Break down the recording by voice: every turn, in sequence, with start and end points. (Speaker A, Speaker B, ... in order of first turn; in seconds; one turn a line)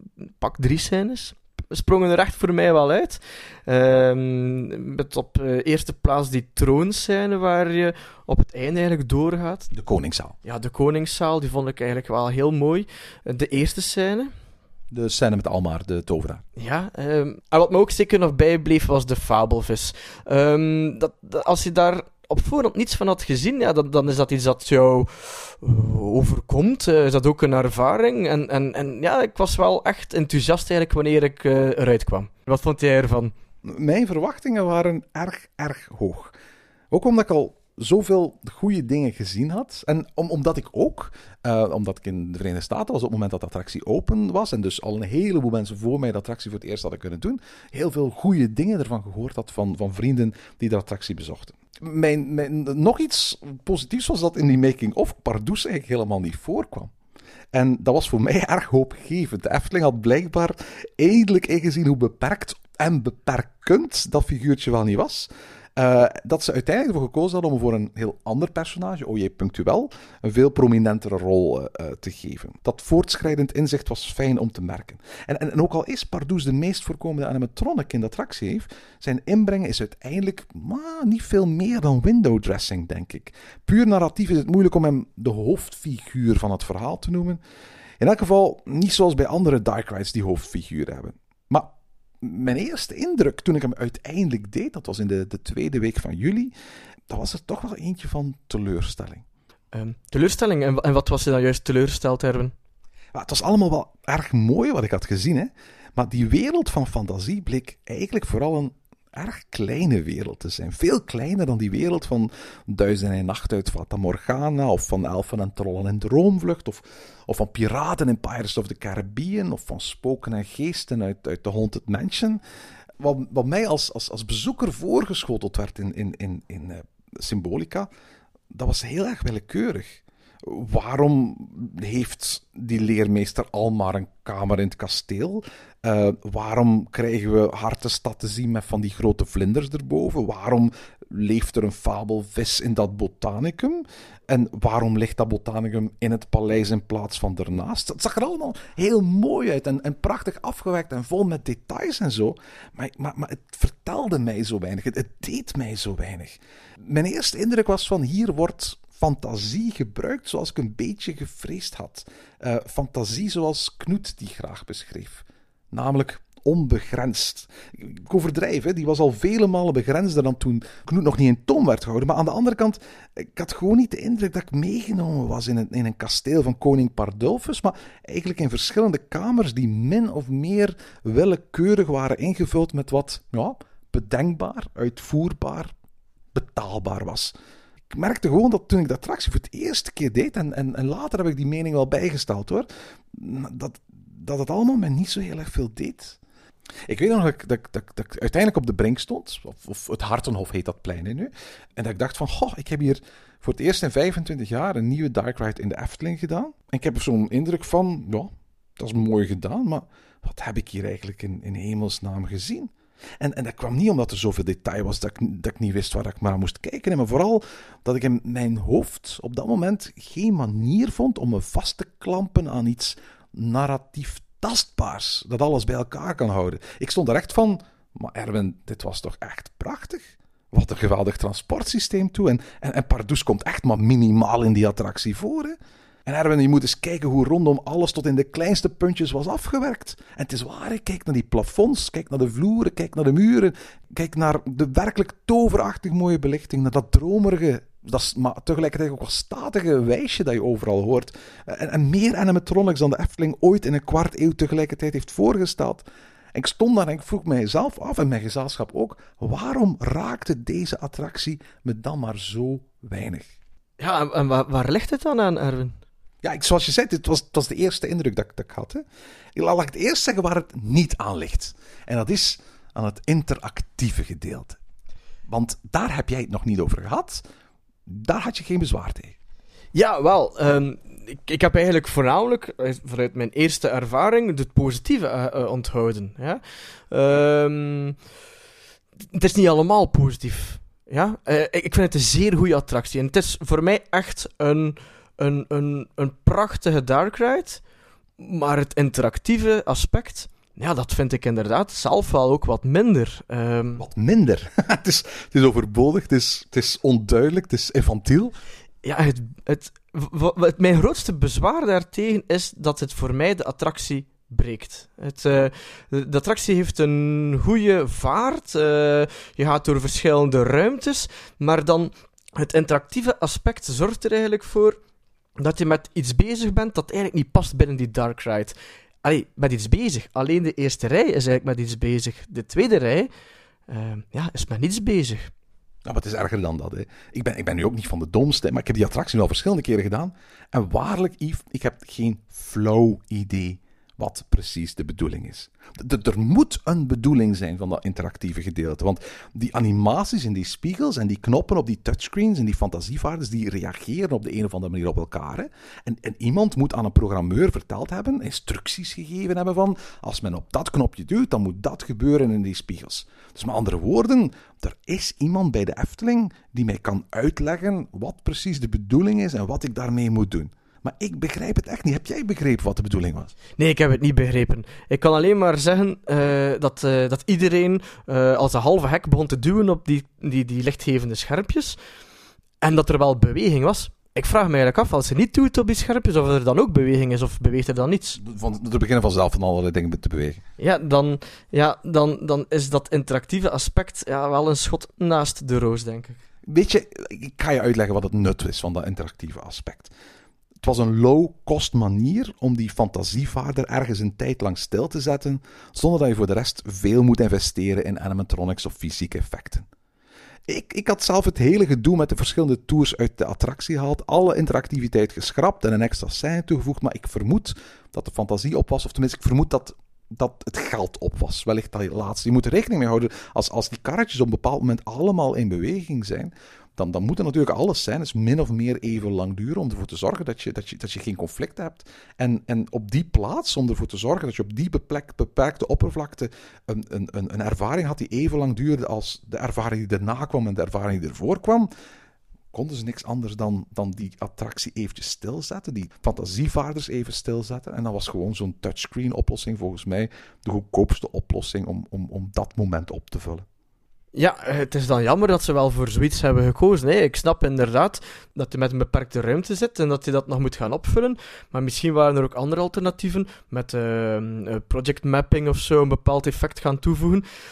Speaker A: 0.2-9.7
Speaker B: 9.7-10.4
Speaker A: 10.4-14.3
Speaker B: 14.9-16.4
Speaker A: 16.6-33.3
Speaker B: 33.6-36.3
Speaker B: 36.9-56.9
Speaker B: 57.5-87.4
Speaker B: 88.0-96.5
Speaker B: 97.1-99.2
Speaker A: 99.7-102.5
Speaker B: 103.1-122.4
Speaker B: 123.0-127.9
Speaker B: 128.5-185.7
Speaker B: 186.3-187.3
Speaker B: 187.9-196.2
Speaker B: 196.9-263.3
Speaker A: 263.8-265.8
Speaker B: 266.2-268.8
Speaker B: 269.4-274.6
Speaker B: 275.3-277.2
Speaker B: 277.9-279.1
Speaker A: 279.7-288.0
Speaker A: 289.1-297.6
Speaker A: 298.2-303.8
Speaker B: 303.8-308.3
Speaker A: 308.8-324.8
Speaker A: 325.4-333.1
Speaker A: 333.7-335.3
Speaker B: 335.9-373.3
Speaker A: 373.6-381.8
Speaker A: 382.6-388.2
Speaker B: 388.2-390.4
Speaker A: 390.6-396.2
Speaker B: 396.5-399.9
Speaker B: 400.6-409.7
Speaker B: 410.5-441.7
Speaker B: 442.5-453.4
Speaker A: 454.1-467.3